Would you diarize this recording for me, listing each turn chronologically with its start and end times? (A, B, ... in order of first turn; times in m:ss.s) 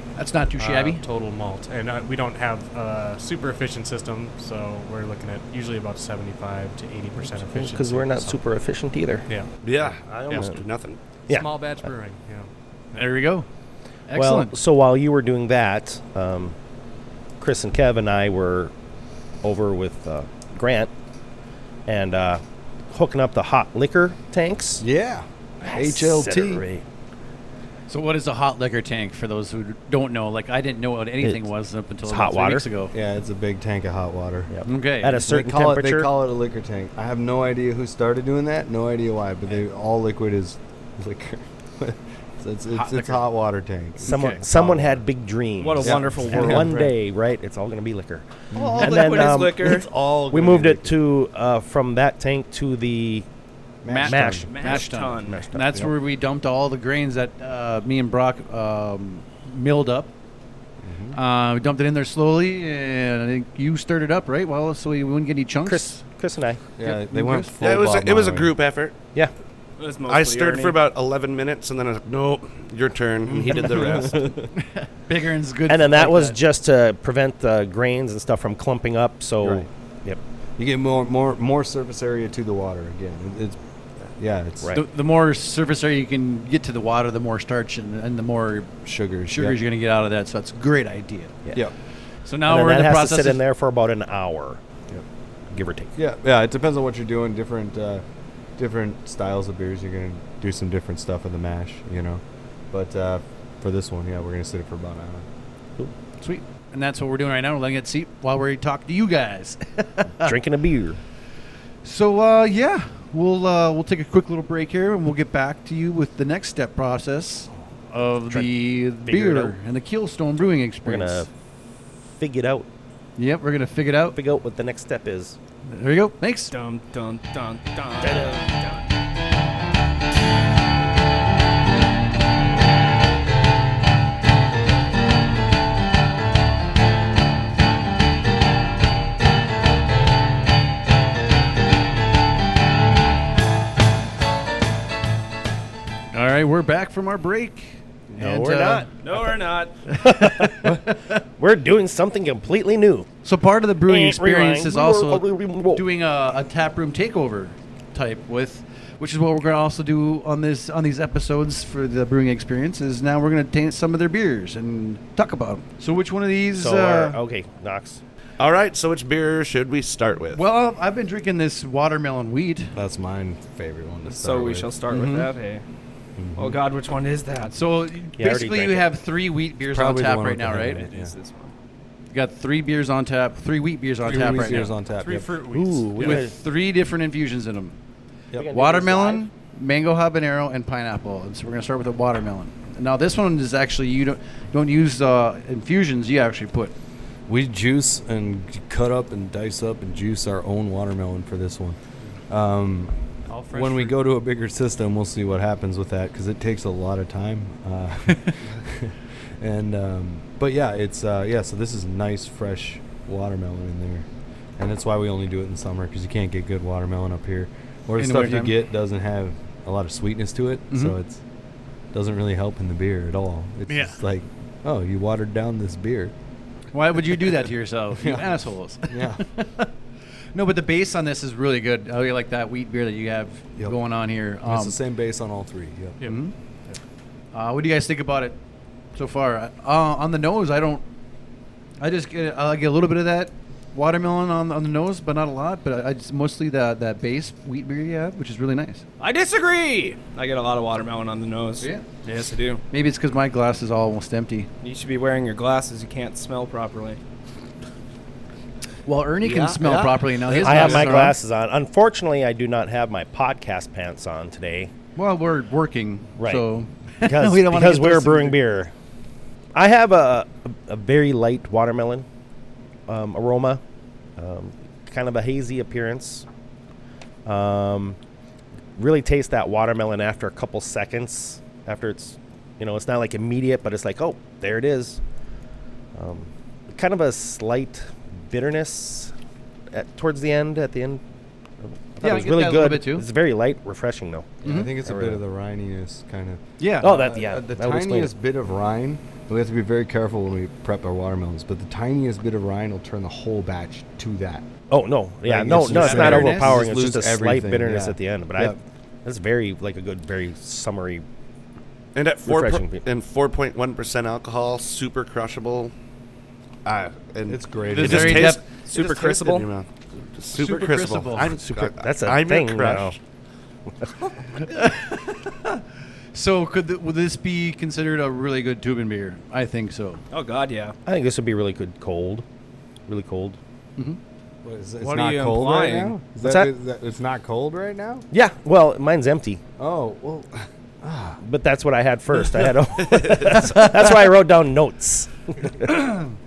0:00.2-0:01.0 A
0:00.5-0:08.4 B
0:07.3-0:09.3 C
0:09.6-0:11.0 D
0:10.3-0:10.6 C
0:11.3-0:12.5 B
0:12.9-0:13.5 A
0:14.1-0:14.5 A
0:14.1-0:16.5 C
0:17.4-0:18.7 C
0:19.4-0:20.9 C
0:21.9-0:24.8 C
0:24.8-0:26.6 E
0:25.6-0:26.8 C
0:27.9-0:32.9 A
0:32.0-0:32.6 C
0:32.9-0:34.5 E
0:34.5-0:36.1 C
0:34.6-0:35.1 A
0:35.0-0:45.0 E
0:42.7-0:43.2 A
0:44.0-0:53.2 C
0:44.0-0:44.4 A
0:45.6-0:46.8 F
0:45.8-0:46.9 E
0:48.5-0:51.0 E
0:48.5-0:49.1 A
0:48.8-0:49.9 F
0:53.8-0:54.5 E
0:53.9-1:00.1 A
0:54.0-0:55.9 C
0:54.5-0:55.4 F
1:00.8-1:01.2 E
1:01.1-1:06.0 A
1:05.6-1:06.6 C
1:06.8-1:08.5 E
1:06.8-1:07.5 A
1:07.6-1:09.0 D
1:09.8-1:10.8 F
1:10.1-1:14.5 D
1:13.2-1:14.4 E
1:14.8-1:16.4 A
1:15.7-1:20.2 C
1:19.4-1:19.7 E
1:20.6-1:23.6 E
1:24.2-1:24.8 E
1:24.7-1:31.4 A
1:28.8-1:29.6 E
1:32.2-1:33.4 A
1:32.5-1:34.6 C
1:35.5-1:35.9 C
1:36.0-1:38.0 E
1:38.6-1:45.2 E
1:46.2-1:50.3 A
1:50.2-1:51.0 C
1:51.8-2:01.3 A
1:58.3-1:59.6 C
2:00.8-2:01.3 C
2:02.1-2:02.7 C
2:03.2-2:04.2 A
2:04.1-2:05.4 C
2:05.7-2:06.5 A
2:06.5-2:08.8 F
2:08.0-2:08.4 C
2:26.1-2:28.9 A
2:28.2-2:33.1 C
2:29.0-2:29.8 F
2:29.9-2:30.7 A
2:33.2-2:47.2 A
2:33.8-2:35.8 C
2:46.6-2:48.0 C
2:48.4-2:50.4 D
2:50.3-2:52.8 A
2:52.8-2:55.2 E
2:54.1-2:55.6 F
2:54.9-2:55.2 A
2:56.2-2:56.6 E
2:56.4-2:57.6 F
2:57.5-3:00.9 A
2:58.2-2:58.9 C
2:59.7-3:01.1 E
3:00.9-3:01.5 F
3:02.1-3:04.7 A
3:04.0-3:05.3 E
3:04.1-3:06.2 B
3:05.5-3:06.3 C
3:06.0-3:07.8 A
3:08.3-3:09.2 C
3:08.5-3:16.7 A
3:17.3-3:21.8 E
3:22.3-3:22.9 E
3:23.3-3:24.0 B
3:23.5-3:34.0 E
3:34.6-3:41.2 E
3:38.0-3:38.5 A
3:40.7-3:41.0 A
3:41.9-3:46.1 E
3:43.7-3:44.0 A
3:46.7-3:49.7 A
3:48.0-3:48.4 E
3:48.9-3:49.2 E
3:50.3-3:54.8 A
3:54.4-3:56.0 E
3:56.0-3:56.8 B
3:56.0-3:56.3 A
3:57.3-3:58.4 A
3:58.9-4:00.8 A
4:01.8-4:08.8 A
4:09.0-4:12.6 F
4:12.7-4:14.5 A
4:14.6-4:17.0 F
4:18.9-4:21.2 A
4:19.2-4:20.6 D
4:20.4-4:24.7 C
4:25.0-4:28.4 A
4:26.2-4:26.4 C
4:27.0-4:28.7 C
4:29.5-4:32.0 C
4:32.9-4:33.6 C
4:34.2-4:36.2 C
4:37.2-4:38.0 C
4:38.8-4:45.0 C
4:45.9-4:49.1 C
4:49.7-4:51.0 C
4:51.6-4:55.2 C
4:52.0-4:53.0 A
4:54.4-5:04.5 E
4:54.4-4:54.7 A
4:56.6-4:56.9 A
4:56.8-4:58.1 C
5:04.7-5:11.0 C
5:05.2-5:08.6 E
5:05.6-5:06.6 A
5:11.9-5:15.7 D
5:12.2-5:12.8 C
5:16.6-5:23.0 D
5:17.3-5:18.3 E
5:17.6-5:18.4 A
5:18.4-5:19.5 F
5:20.3-5:21.4 A
5:21.4-5:22.9 C
5:24.4-5:25.6 A
5:26.1-5:30.0 A
5:30.1-5:30.8 F
5:30.9-5:32.2 C
5:32.9-5:33.4 C
5:34.4-5:38.0 E
5:34.8-5:36.0 F
5:36.2-5:36.5 C
5:38.1-5:39.4 C
5:39.6-5:41.2 E
5:41.2-5:45.7 C